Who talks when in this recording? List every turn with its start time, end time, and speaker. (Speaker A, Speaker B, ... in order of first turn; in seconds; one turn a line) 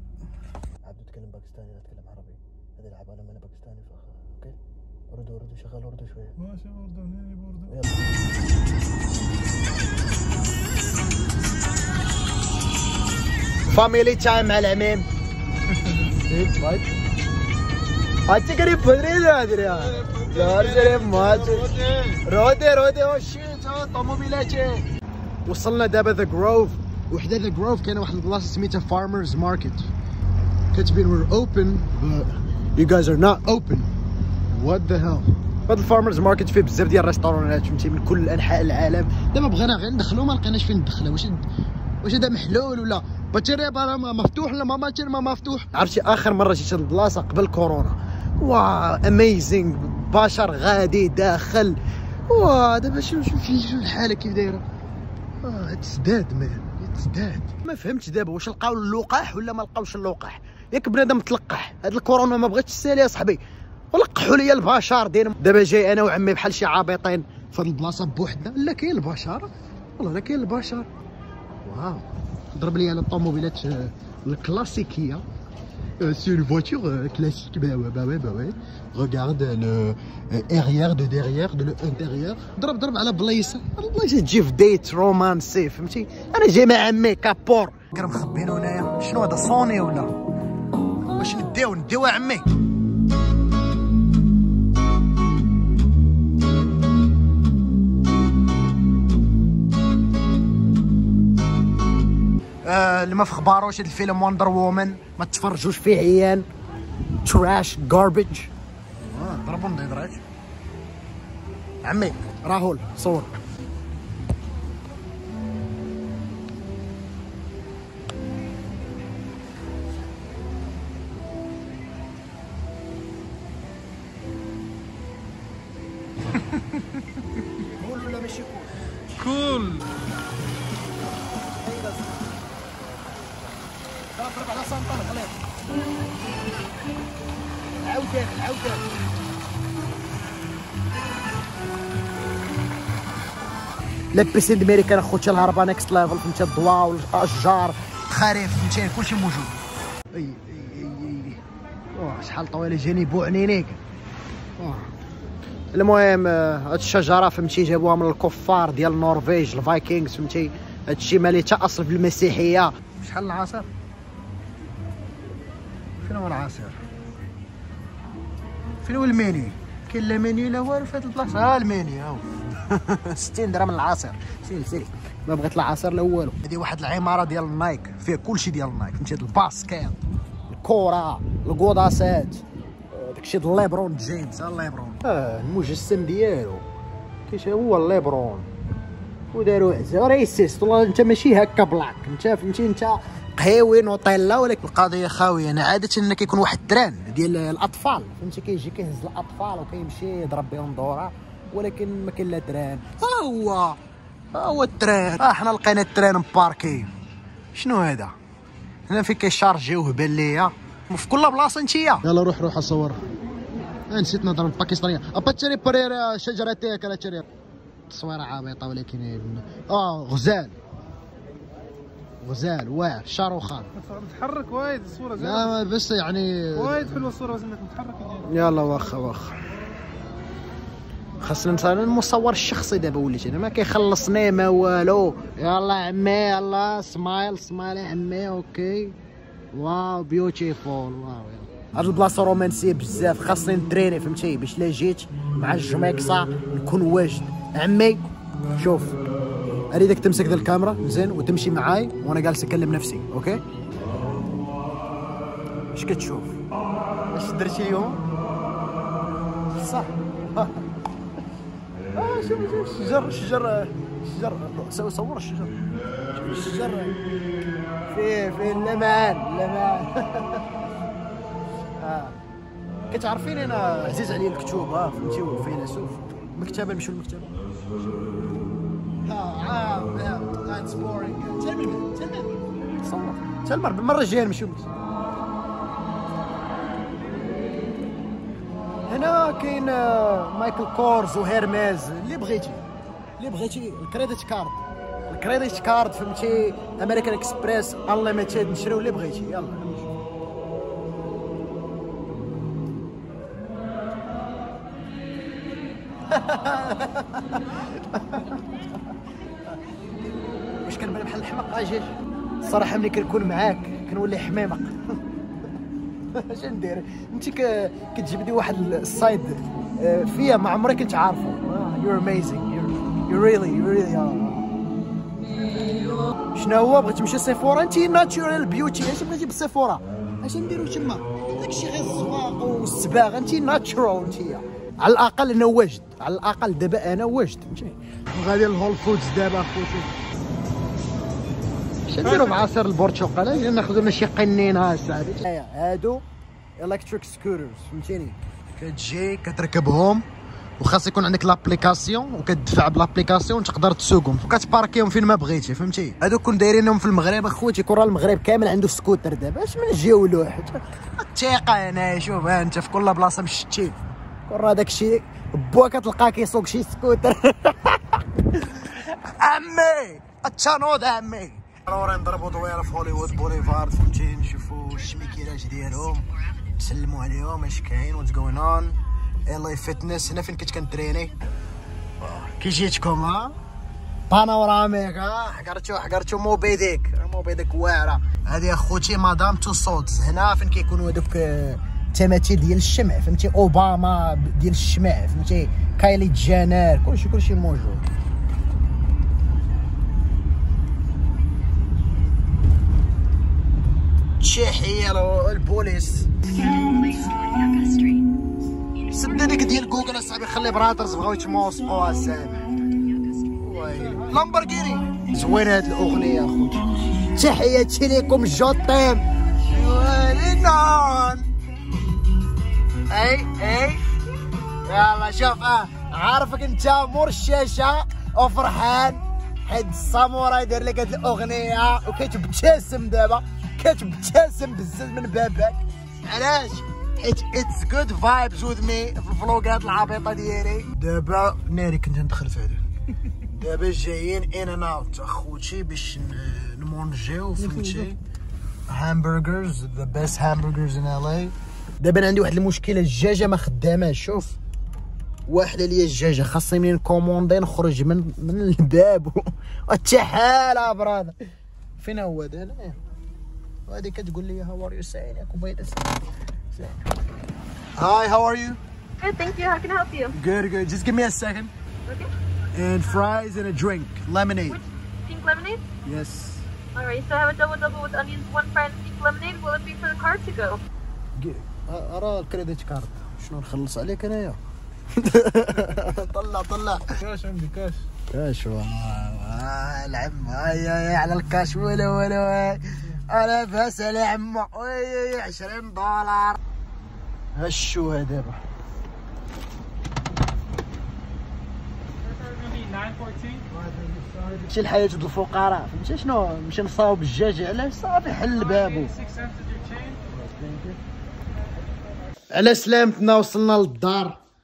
Speaker A: 0.8-4.5
Speaker A: 5.1-6.4
Speaker B: 6.5-7.6
Speaker A: 7.7-8.1
Speaker A: 13.7-15.1
Speaker A: 15.9-16.9
Speaker A: 18.3-24.8
Speaker A: 25.4-29.9
Speaker A: 30.7-33.9
Speaker A: 34.5-41.4
Speaker A: 42.0-54.6
Speaker A: 55.4-63.4
Speaker A: 63.9-70.9
Speaker A: 71.6-75.2
Speaker A: 76.0-90.2
Speaker A: 91.1-92.5
Speaker A: 102.6-106.5
Speaker A: 107.2-108.5
Speaker A: 109.1-110.2
Speaker A: 111.8-113.3
Speaker A: 127.8-129.6
Speaker B: 129.3-129.8
Speaker A: 131.6-132.4
Speaker A: 134.0-135.4
Speaker A: 137.7-138.9
Speaker A: 144.1-149.5
Speaker A: 150.1-153.8
Speaker A: 154.6-154.9
Speaker A: 155.7-163.7
Speaker A: 166.0-166.8
Speaker A: 168.8-186.6
Speaker A: 187.3-188.5
Speaker A: 189.3-203.8
Speaker A: 204.3-206.9
Speaker A: 207.5-208.1
Speaker A: 208.9-213.0
Speaker A: 213.9-217.2
Speaker A: 217.9-220.6
Speaker A: 222.2-223.7
Speaker B: 223.8-225.2
Speaker A: 225.1-227.2
Speaker B: 226.9-228.2
Speaker A: 228.2-229.4
Speaker A: 231.2-239.0
Speaker A: 239.5-249.0
Speaker A: 249.7-253.4
Speaker A: 255.7-256.4
Speaker A: 257.1-258.0
Speaker A: 259.5-260.6
Speaker A: 261.9-265.6
Speaker A: 266.1-267.0
Speaker A: 267.9-270.6
Speaker A: 271.8-272.2
Speaker A: 272.9-277.4
Speaker A: 279.0-284.7
Speaker A: 288.9-292.6
Speaker A: 293.2-299.9
Speaker A: 306.1-308.5
Speaker A: 310.6-314.8
Speaker A: 316.1-324.5
Speaker A: 325.4-339.9
Speaker A: 341.9-346.0
Speaker A: 346.6-350.0
Speaker A: 350.6-381.1
Speaker A: 382.0-383.3
Speaker A: 384.1-397.9
Speaker A: 404.2-406.1
Speaker A: 406.8-407.2
Speaker C: 407.3-408.0
Speaker A: 408.8-412.4
Speaker A: 413.2-421.3
Speaker A: 422.9-423.8
Speaker A: 424.6-442.6
Speaker A: 443.3-448.0
Speaker A: 448.7-454.4
Speaker A: 455.3-461.1
Speaker A: 461.8-462.8
Speaker A: 463.7-466.0
Speaker A: 466.5-466.8
Speaker A: 467.8-468.6
Speaker C: 469.0-470.1
Speaker A: 470.1-471.5
Speaker C: 471.9-472.1
Speaker A: 472.5-474.6
Speaker C: 474.5-475.6
Speaker A: 475.8-476.5
Speaker C: 476.7-480.6
Speaker A: 481.2-484.4
Speaker A: 484.9-487.1
Speaker B: 487.1-487.9
Speaker A: 488.1-496.4
Speaker A: 497.3-498.4
Speaker C: 502.1-503.3
Speaker B: 502.7-503.4
Speaker A: 503.5-509.0
Speaker C: 509.2-509.9
Speaker A: 510.1-510.8
Speaker A: 512.3-514.2